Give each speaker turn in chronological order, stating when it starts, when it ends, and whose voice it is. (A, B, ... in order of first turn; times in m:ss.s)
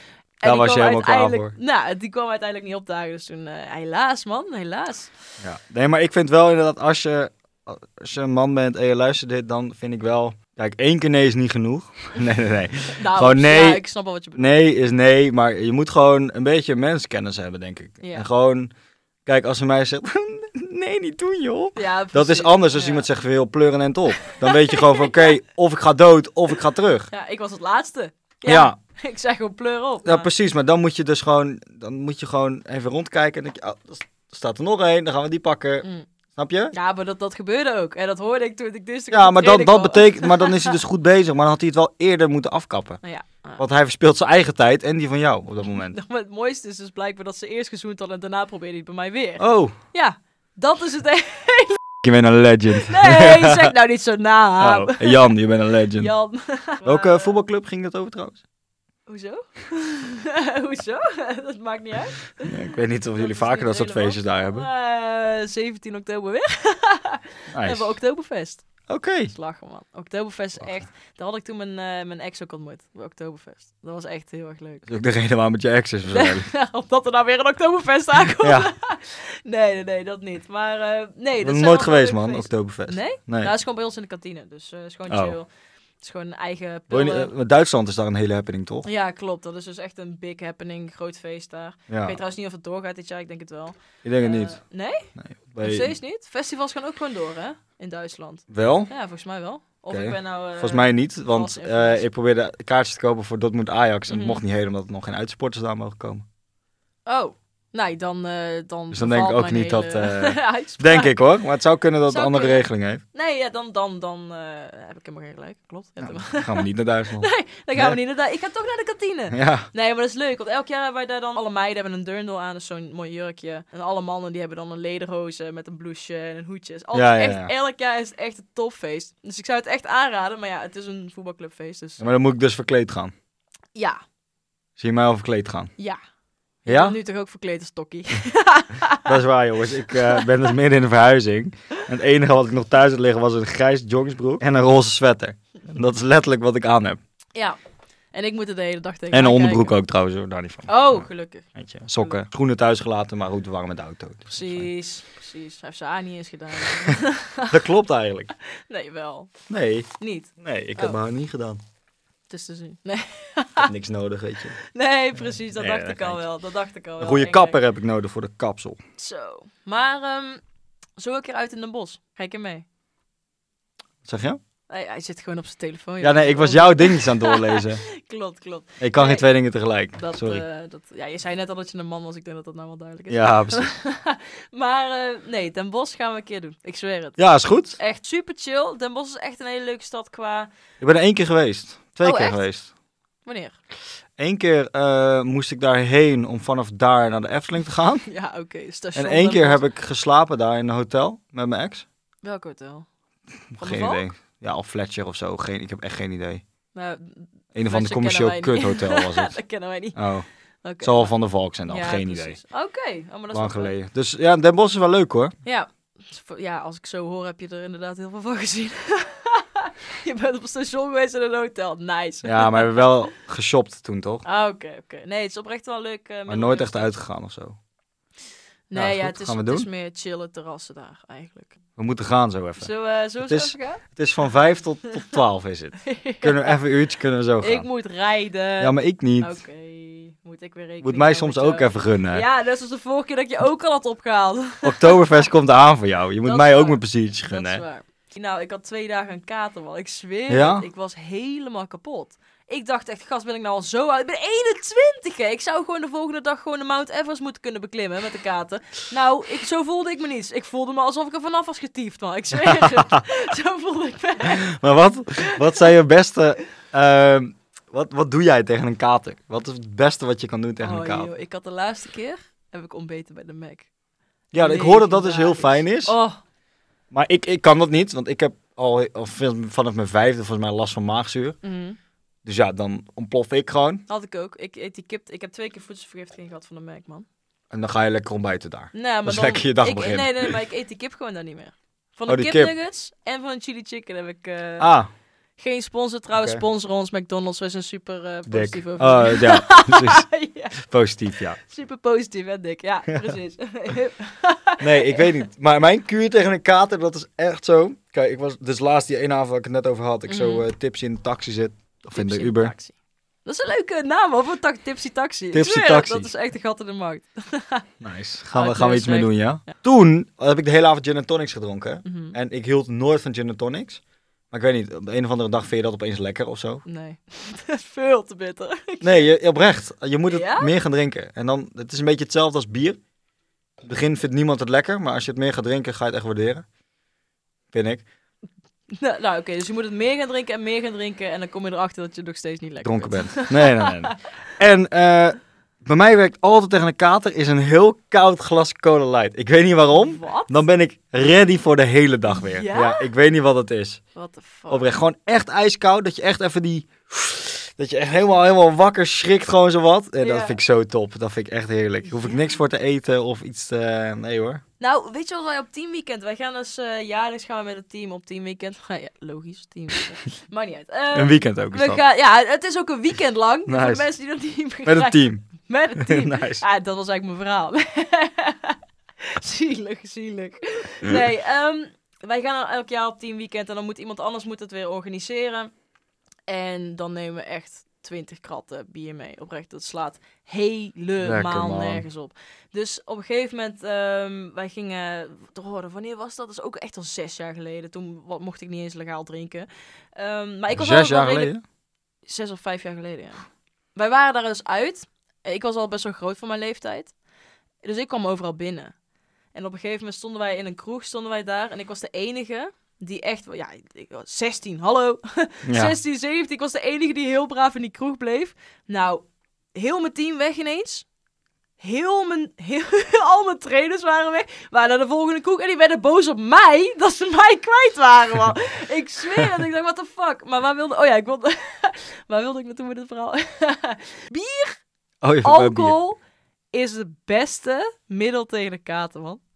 0:00.4-0:05.1 A
0:00.4-0:01.6 B
0:05.4-0:13.8 B
0:12.9-0:14.6 A
0:14.4-0:18.7 B
0:18.0-0:18.3 A
0:19.3-0:27.1 B
0:21.8-0:23.1 A
0:24.3-0:25.3 A
0:27.1-0:30.3 A
0:28.5-0:28.8 B
0:30.0-0:36.7 B
0:36.7-0:40.8 A
0:39.1-0:43.0 B
0:43.0-0:43.6 A
0:43.6-0:46.0 B
0:45.8-0:51.8 A
0:49.4-0:49.8 B
0:52.0-0:53.7 B
0:52.8-0:55.3 A
0:54.6-0:56.1 B
0:56.0-0:57.4 A
0:56.8-0:58.4 B
0:59.1-1:02.5 A
1:02.4-1:04.7 B
1:03.2-1:08.7 A
1:07.5-1:08.0 B
1:08.9-1:09.3 B
1:09.3-1:14.9 A
1:14.9-1:16.5 B
1:16.1-1:25.5 A
1:18.4-1:18.7 B
1:21.4-1:23.5 B
1:25.1-1:25.4 B
1:26.0-1:27.3 A
1:26.9-1:28.9 B
1:28.8-1:35.1 A
1:31.9-1:32.2 B
1:34.0-1:34.6 B
1:35.2-1:35.9 B
1:35.6-1:42.0 A
1:38.5-1:38.9 B
1:39.9-1:46.2 B
1:44.1-1:44.4 A
1:47.1-1:51.2 A
1:48.9-1:53.0 B
1:52.1-2:12.0 A
1:56.0-1:58.0 B
1:59.3-1:59.7 B
2:06.9-2:07.5 B
2:12.0-2:13.1 B
2:13.8-2:14.0 A
2:14.8-2:15.7 B
2:16.7-2:19.2 A
2:16.7-2:17.0 B
2:19.0-2:27.0 B
2:20.0-2:20.3 A
2:28.1-2:29.8 A
2:29.1-2:34.7 B
2:30.7-2:32.2 A
2:34.3-2:37.6 A
2:37.5-2:38.3 B
2:38.7-2:39.3 A
2:39.5-2:39.9 B
2:40.0-2:41.0 A
2:40.4-2:41.6 B
2:42.3-2:43.7 A
2:43.6-2:44.6 B
2:44.7-2:47.6 A
2:45.2-2:46.2 B
2:47.0-2:48.8 B
2:49.0-2:50.4 A
2:51.0-2:52.6 A
2:54.0-2:54.4 B
2:54.7-2:59.3 A
2:56.0-2:57.8 B
2:58.8-3:00.4 B
3:00.0-3:07.2 A
3:03.1-3:03.7 B
3:07.2-3:07.8 B
3:07.8-3:10.5 A
3:10.8-3:12.7 B
3:12.0-3:12.4 A
3:13.2-3:13.6 A
3:14.2-3:18.1 B
3:18.1-3:19.7 A
3:19.0-3:21.9 B
3:22.2-3:22.9 A
3:23.5-3:26.4 B
3:23.6-3:24.0 A
3:26.7-3:30.0 A
3:27.6-3:29.4 B
3:30.0-3:30.3 B
3:30.6-3:31.1 A
3:30.8-3:32.4 B
3:31.7-3:33.7 A
3:33.3-3:35.3 B
3:35.4-3:42.9 A
3:42.2-3:44.2 B
3:44.2-3:46.9 A
3:46.3-3:47.6 B
3:48.7-3:51.6 A
3:48.7-3:49.7 B
3:51.8-3:57.7 B
3:52.6-3:53.8 A
3:55.8-3:56.6 A
3:57.4-4:05.2 A
3:58.6-3:59.4 B
4:00.8-4:02.2 B
4:04.6-4:07.6 B
4:06.2-4:24.5 A
4:10.3-4:10.7 B
4:22.3-4:23.0 B
4:24.2-4:31.1 B
4:25.2-4:25.6 A
4:30.6-4:33.7 A
4:34.3-4:35.9 B
4:34.4-4:36.2 A
4:36.9-4:41.4 B
4:41.4-4:41.8 A
4:42.2-4:43.8 B
4:43.9-4:47.1 A
4:47.5-4:50.4 B
4:48.7-4:54.7 A
4:52.1-4:52.5 B
4:54.6-4:54.9 B
4:55.4-5:00.6 A
4:56.1-4:56.4 B
4:58.3-5:01.4 B
5:01.4-5:05.2 A
5:04.6-5:12.5 B
5:10.1-5:10.5 A
5:12.0-5:17.7 A
5:15.3-5:16.1 B
5:17.8-5:26.6 B
5:18.3-5:19.5 A
5:21.8-5:22.2 A
5:26.7-5:29.1 A
5:28.8-5:32.8 B
5:30.1-5:30.5 A
5:33.6-5:36.4 B
5:37.5-5:37.8 B
5:38.7-5:44.0 A
5:42.6-5:53.8 B
5:49.8-5:50.5 A
5:52.3-5:52.9 A
5:54.0-5:54.7 A
5:54.5-6:04.4 B
6:00.0-6:00.4 A
6:04.6-6:25.5 A
6:10.9-6:11.8 B
6:13.5-6:13.8 B
6:14.7-6:15.3 B
6:15.8-6:16.4 B
6:26.3-6:41.3 A
6:31.0-6:31.8 B
6:40.5-6:41.4 B
6:42.1-6:43.2 A
6:43.8-6:46.9 A
6:47.6-6:48.7 A
6:49.3-7:00.9 A
6:55.4-6:55.8 B
7:01.6-7:14.6 A
7:15.0-7:15.8 B
7:15.2-7:16.0 A
7:16.5-7:19.2 A